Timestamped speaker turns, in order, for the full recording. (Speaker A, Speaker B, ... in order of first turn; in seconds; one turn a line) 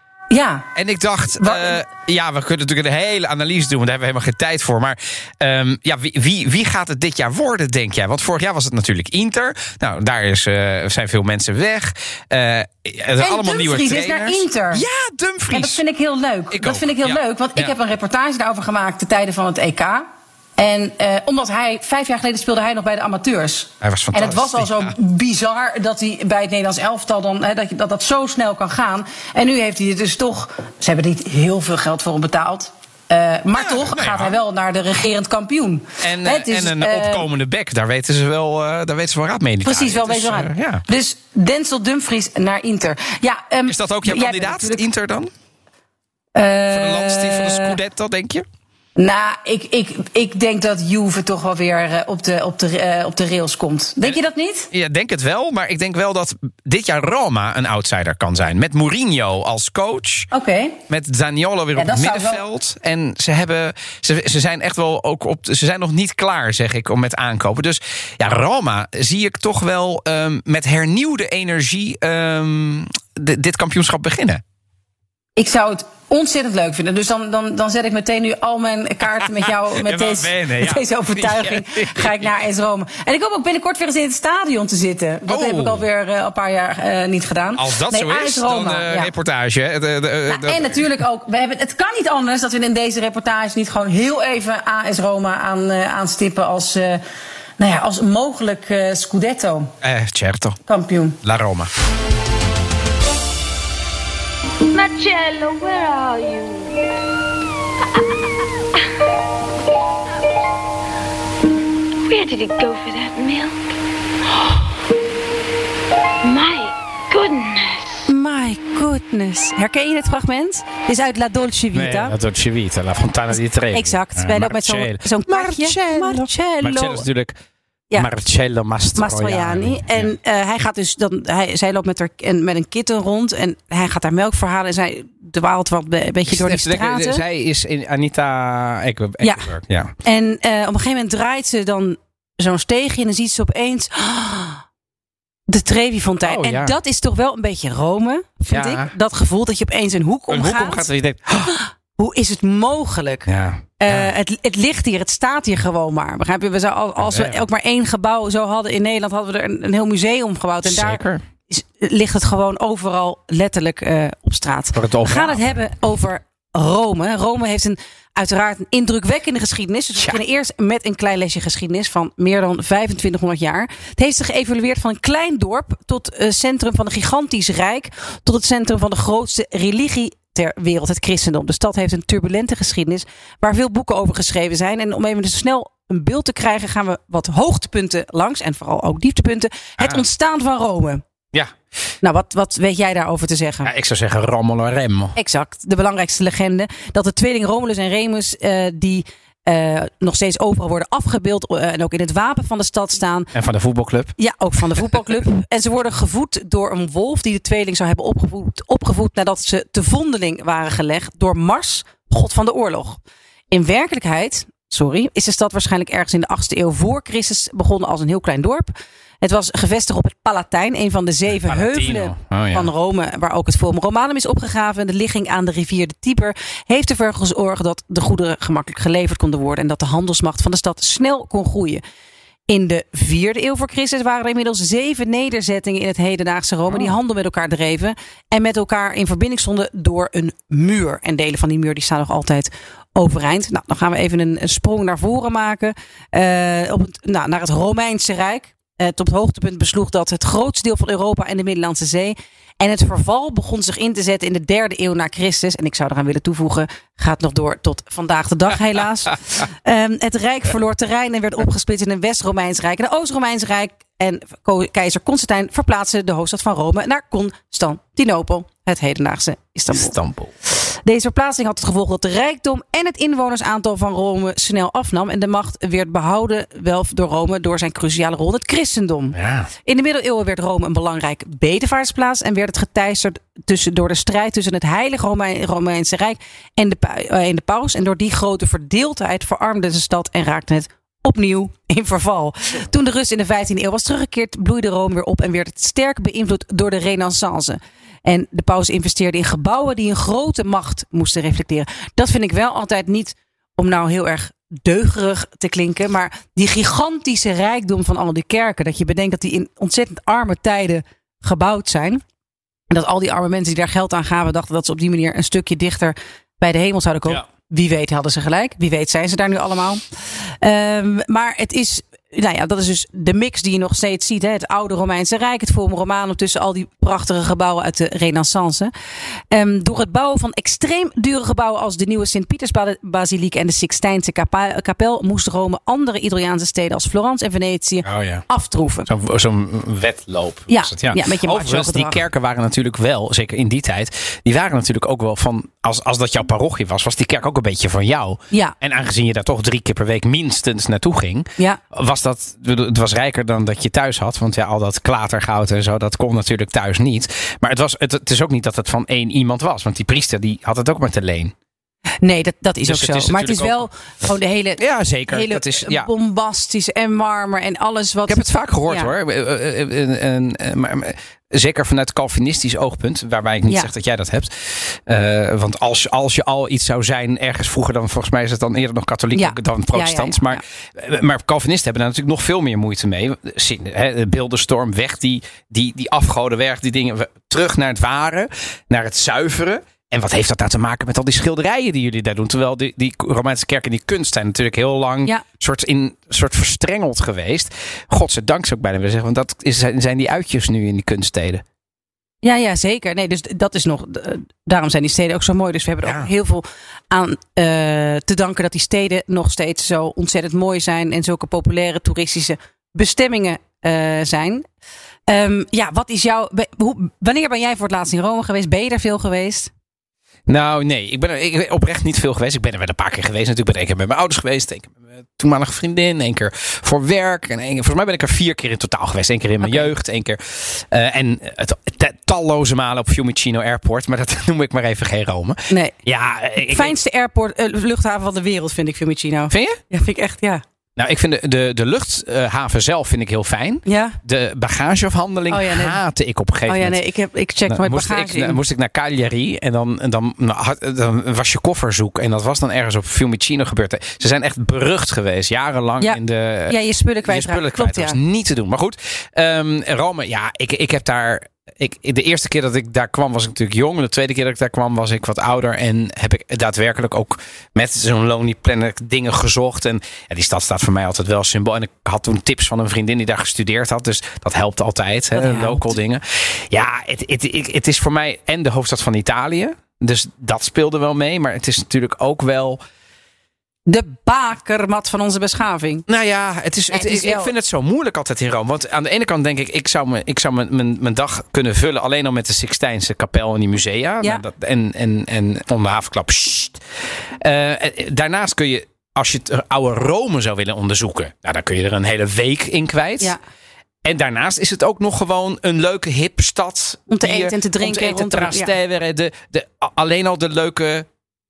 Speaker A: 0.3-0.7
Speaker B: 0.7-15.8
Speaker A: 1.4-1.8
Speaker A: 13.2-14.8
Speaker A: 15.5-20.0
Speaker B: 16.5-17.7
Speaker A: 20.6-37.2
Speaker B: 23.8-24.9
Speaker B: 33.5-34.4
Speaker B: 36.0-40.8
Speaker A: 39.6-44.8
Speaker B: 43.7-45.3
Speaker A: 46.3-47.8
Speaker B: 46.7-48.5
Speaker A: 49.0-54.7
Speaker B: 54.7-60.3
Speaker A: 60.3-60.8
Speaker B: 60.9-74.4
Speaker A: 61.7-62.4
Speaker A: 75.4-89.1
Speaker B: 79.4-82.3
Speaker B: 85.3-85.8
Speaker B: 87.5-90.8
Speaker A: 90.3-97.0
Speaker A: 97.6-99.7
Speaker B: 99.8-100.6
Speaker A: 100.7-101.2
Speaker B: 101.2-101.7
Speaker C: 104.7-106.7
Speaker C: 112.0-113.7
Speaker C: 114.3-114.7
Speaker C: 116.2-118.0
Speaker A: 118.0-122.1
Speaker B: 121.7-127.3
Speaker A: 123.7-127.0
Speaker B: 128.0-130.1
Speaker A: 128.9-137.2
Speaker B: 136.3-139.9
Speaker A: 139.2-139.5
Speaker A: 140.0-144.6
Speaker A: 145.5-150.8
Speaker B: 146.2-146.7
Speaker B: 148.5-148.9
Speaker B: 150.3-151.6
Speaker A: 151.4-153.3
Speaker B: 153.3-154.1
Speaker A: 153.8-191.0
Speaker B: 157.0-157.4
Speaker B: 160.6-161.2
Speaker B: 164.7-165.5
Speaker A: 192.0-193.7
Speaker B: 193.6-195.2
Speaker A: 195.2-203.3
Speaker B: 203.3-204.2
Speaker A: 204.2-213.0
Speaker A: 213.5-231.8
Speaker B: 221.3-222.7
Speaker A: 232.5-269.9
Speaker B: 236.7-236.9
Speaker B: 269.7-270.3
Speaker A: 270.6-312.0
Speaker B: 279.1-279.5
Speaker A: 312.7-319.8
Speaker A: 320.4-328.7
Speaker A: 329.3-338.9
Speaker B: 337.8-338.2
Speaker B: 338.9-361.3
Speaker A: 340.5-342.0
Speaker A: 348.3-348.6
Speaker A: 362.0-368.9
Speaker B: 362.6-363.7
Speaker B: 364.6-365.9
Speaker B: 368.1-401.4
Speaker A: 379.1-380.4
Speaker A: 402.2-414.4
Speaker B: 405.8-406.1
Speaker A: 415.1-419.5
Speaker B: 420.3-436.8
Speaker A: 429.4-429.7
Speaker A: 436.5-440.4
Speaker B: 439.3-439.6
Speaker B: 440.8-446.8
Speaker A: 443.7-444.0
Speaker A: 445.3-445.8
Speaker A: 446.5-448.4
Speaker B: 447.5-482.6
Speaker A: 455.8-458.0
Speaker A: 475.1-475.7
Speaker A: 483.7-485.8
Speaker B: 485.9-496.6
Speaker A: 486.7-487.3
Speaker B: 497.2-503.1
Speaker B: 503.8-510.9
Speaker A: 506.9-508.5